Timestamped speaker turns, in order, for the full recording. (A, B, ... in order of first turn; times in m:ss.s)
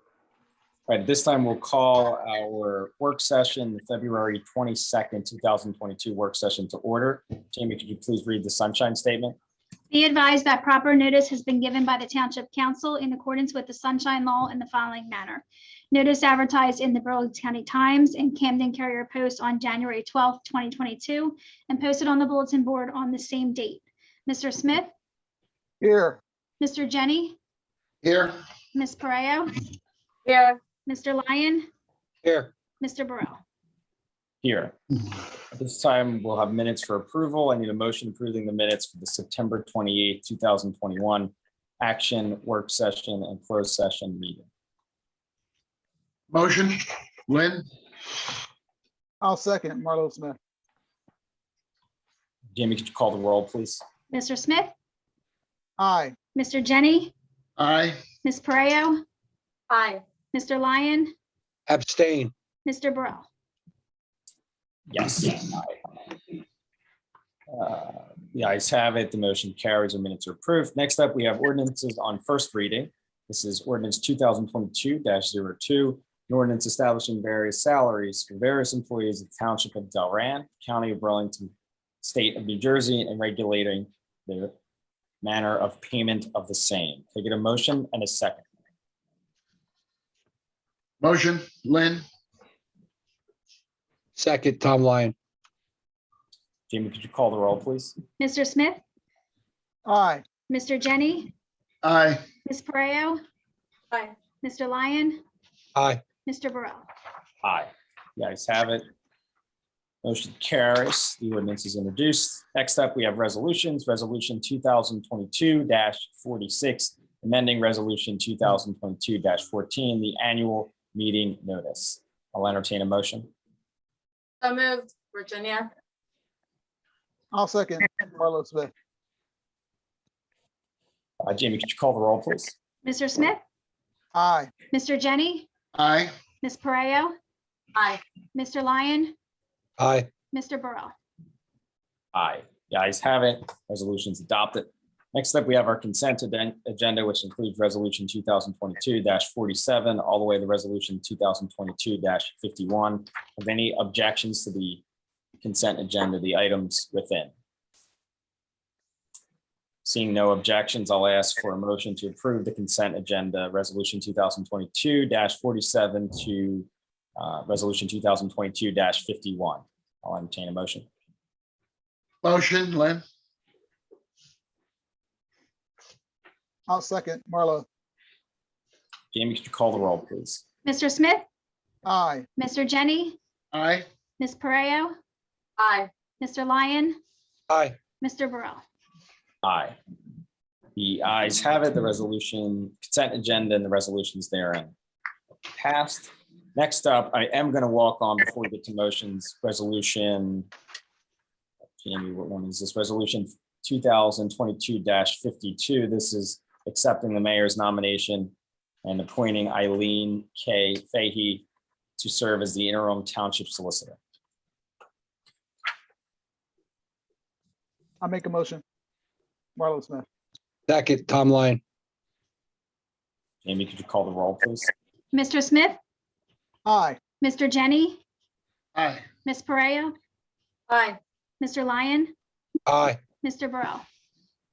0:00.9-0:09.4 A
0:09.9-0:24.9 B
0:25.8-0:26.2 C
0:26.6-0:27.4 B
0:28.0-0:28.3 D
0:28.7-0:29.6 B
0:30.3-0:30.6 E
0:30.8-0:31.7 B
0:32.2-0:32.5 F
0:32.8-0:33.4 B
0:34.4-0:34.8 A
0:35.5-0:44.4 A
0:46.3-0:47.6 D
0:49.2-0:50.4 C
0:52.5-0:53.8 A
0:54.1-0:54.7 B
0:55.8-0:56.1 C
0:56.3-0:57.1 B
0:57.6-0:58.0 D
0:58.2-0:59.0 B
0:59.7-1:00.0 E
1:00.3-1:01.1 B
1:01.7-1:02.3 F
1:02.6-1:03.3 B
1:04.9-1:05.8 A
1:07.5-1:24.5 A
1:25.2-1:28.4 A
1:31.0-1:32.0 D
1:34.2-1:35.1 F
1:36.7-1:38.0 A
1:38.2-1:38.8 B
1:39.8-1:40.2 C
1:40.5-1:41.3 B
1:41.8-1:42.2 D
1:42.4-1:43.2 B
1:44.4-1:45.2 B
1:45.8-1:46.0 F
1:46.2-1:46.9 B
1:47.4-1:48.8 A
1:50.0-2:03.3 A
2:04.4-2:05.7 E
2:07.3-2:08.7 C
2:11.2-2:12.6 A
2:12.8-2:13.4 B
2:14.1-2:14.5 C
2:14.7-2:15.4 B
2:15.7-2:16.1 D
2:16.4-2:17.2 B
2:17.7-2:18.0 E
2:18.3-2:19.1 B
2:19.8-2:20.1 F
2:20.3-2:20.9 B
2:22.1-2:34.8 A
2:35.4-2:37.3 A
2:39.8-2:50.9 A
2:52.2-2:53.0 D
2:56.7-2:57.6 C
2:59.1-3:00.4 A
3:00.6-3:01.2 B
3:01.8-3:02.3 C
3:02.4-3:03.2 B
3:03.5-3:03.9 D
3:04.2-3:04.9 B
3:05.6-3:05.9 E
3:06.2-3:07.0 B
3:07.5-3:07.8 F
3:08.0-3:08.6 B
3:09.4-3:09.8 A
3:10.8-3:14.7 A
3:15.5-3:20.5 A
3:21.8-3:31.4 A
3:32.0-3:34.0 A
3:38.0-3:38.6 C
3:39.6-3:40.0 C
3:40.7-3:41.6 F
3:43.4-3:44.7 A
3:45.1-3:45.8 B
3:46.6-3:47.0 C
3:47.2-3:48.0 B
3:48.7-3:49.0 D
3:49.2-3:49.9 B
3:50.7-3:51.0 E
3:51.4-3:52.1 B
3:52.7-3:53.0 F
3:53.2-3:53.8 B